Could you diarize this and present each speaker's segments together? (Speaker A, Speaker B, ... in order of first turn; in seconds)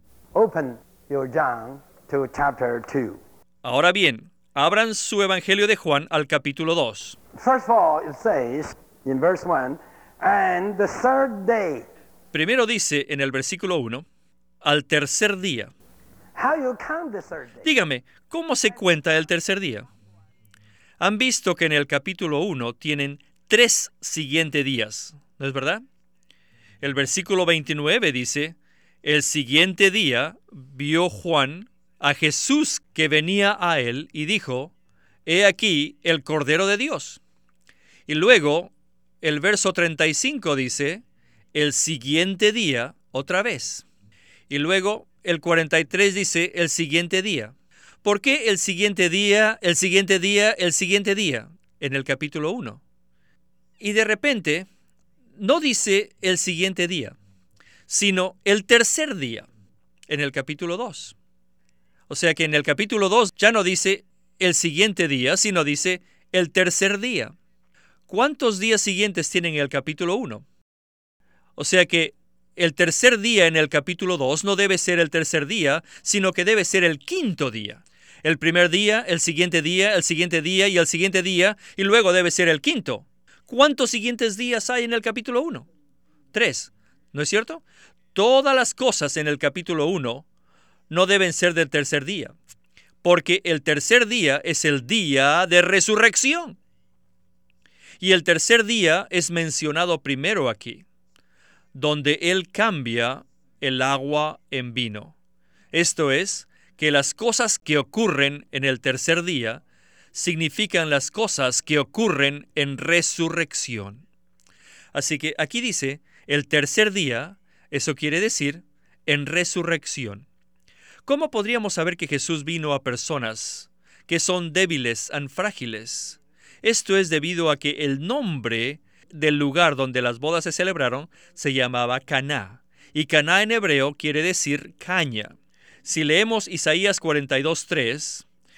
Speaker A: 0.3-3.2, 7.4-11.9, 16.4-17.6
Speaker B: 3.6-7.2, 12.3-14.1, 14.6-15.7, 17.6-19.9, 21.0-25.8, 26.8-34.7, 35.2-37.2, 38.1-41.0, 41.5-43.9, 44.5-52.8, 53.8-54.7, 55.4-57.1, 57.9-59.5, 60.1-61.1, 62.1-67.3, 68.1-70.5, 71.6-85.7, 86.3-87.6, 88.1-90.2, 90.9-92.3, 93.0-96.6, 98.0-100.8, 101.7-105.1, 105.7-109.6, 110.1-114.0, 114.9-120.2, 121.1-138.2